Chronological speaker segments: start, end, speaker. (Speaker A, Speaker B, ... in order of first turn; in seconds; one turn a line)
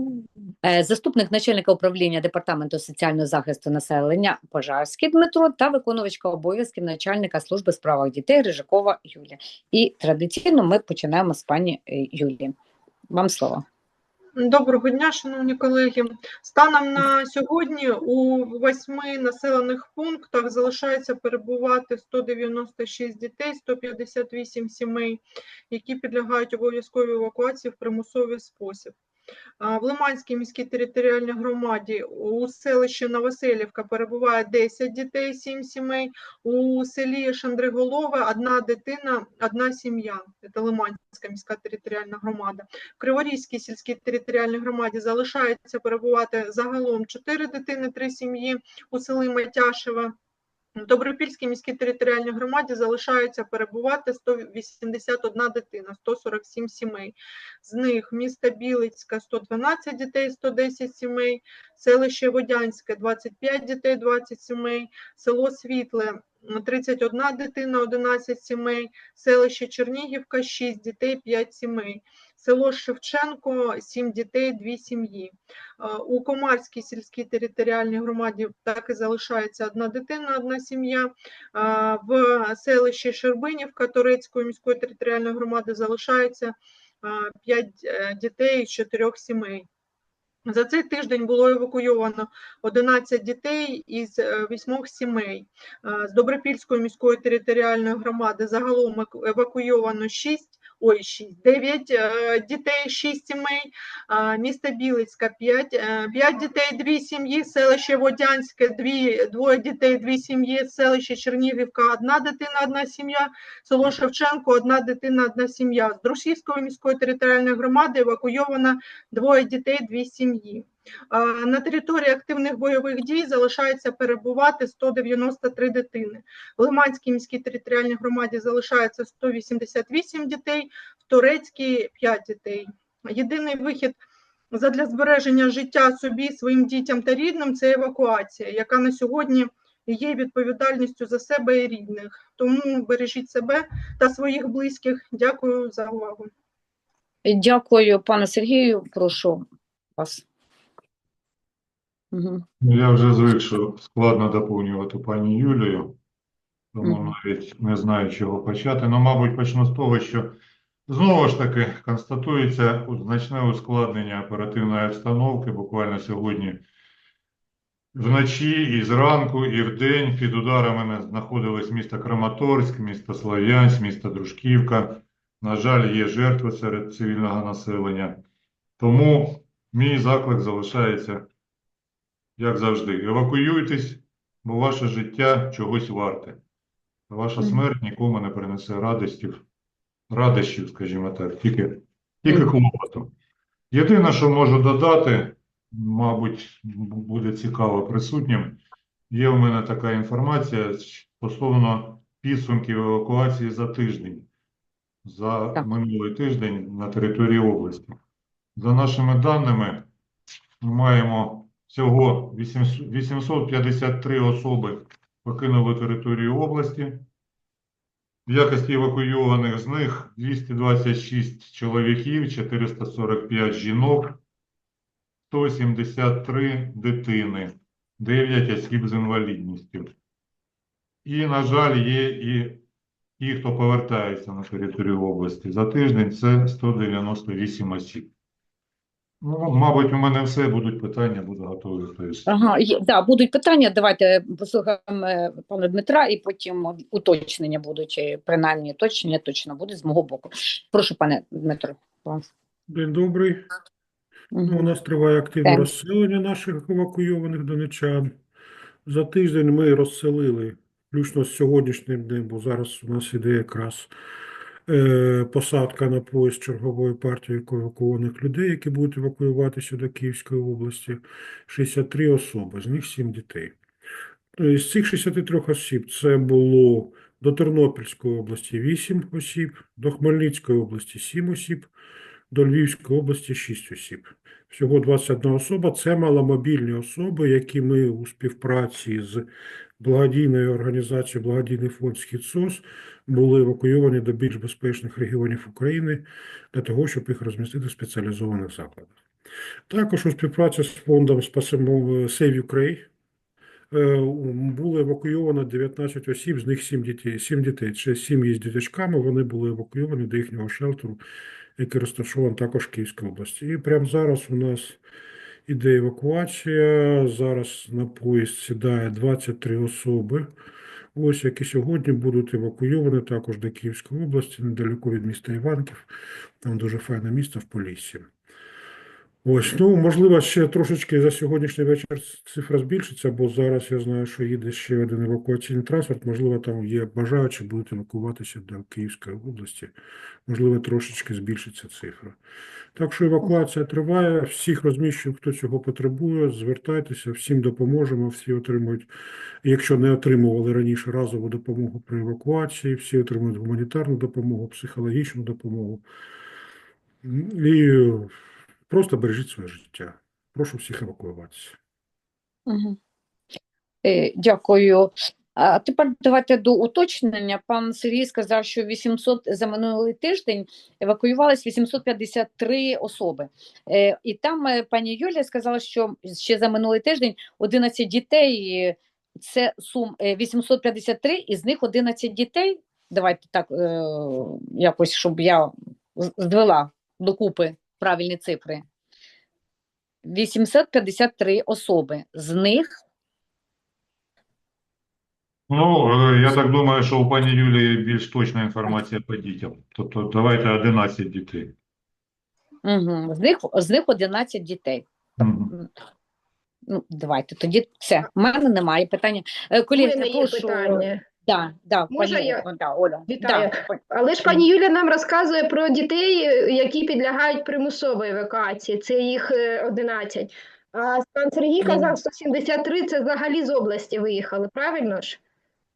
Speaker A: 0.6-12.5
Speaker A: 13.1-13.6
Speaker B: 14.4-28.9
Speaker B: 29.6-50.1
Speaker B: 50.8-89.7
Speaker B: 90.5-134.0
Speaker B: 134.5-146.3
Speaker A: 147.2-149.4
Speaker A: 150.0-150.2
Speaker A: 152.1-152.4
Speaker C: 152.6-156.0
Speaker C: 156.8-160.4
Speaker A: 156.8-157.1
Speaker C: 160.9-166.7
Speaker C: 167.9-178.2
Speaker C: 178.8-181.3
Speaker C: 182.4-186.4
Speaker C: 187.1-189.4
Speaker C: 190.1-193.1
Speaker C: 193.7-204.3
Speaker C: 205.1-208.0
Speaker C: 208.6-209.9
Speaker C: 210.6-217.1
Speaker C: 218.3-224.2
Speaker C: 225.3-229.9
Speaker C: 231.1-232.7
Speaker C: 233.2-238.1
Speaker C: 239.2-242.3
Speaker A: 242.3-252.3
Speaker D: 252.7-253.4
Speaker A: 254.3-254.7
Speaker D: 254.5-258.1
Speaker D: 258.9-263.9
Speaker D: 264.7-273.6
Speaker D: 274.4-281.7
Speaker D: 282.3-289.3
Speaker D: 289.8-298.9
Speaker D: 299.7-302.9
Speaker D: 303.7-311.0
Speaker D: 311.6-314.8
Speaker D: 315.5-320.3
Speaker D: 320.9-325.9
Speaker D: 326.4-328.1
Speaker D: 329.2-339.7
Speaker D: 340.3-342.2
Speaker D: 342.8-348.9
Speaker D: 349.4-355.8
Speaker D: 357.0-358.1
Speaker D: 358.7-361.6
Speaker A: 362.5-362.8
Speaker A: 363.8-388.6
Speaker A: 390.1-392.8
Speaker C: 395.5-401.6
Speaker A: 402.6-405.7
Speaker C: 405.2-405.5
Speaker A: 406.7-414.4
Speaker E: 409.8-411.0
Speaker E: 411.9-412.4
Speaker E: 413.1-425.2
Speaker A: 421.6-421.9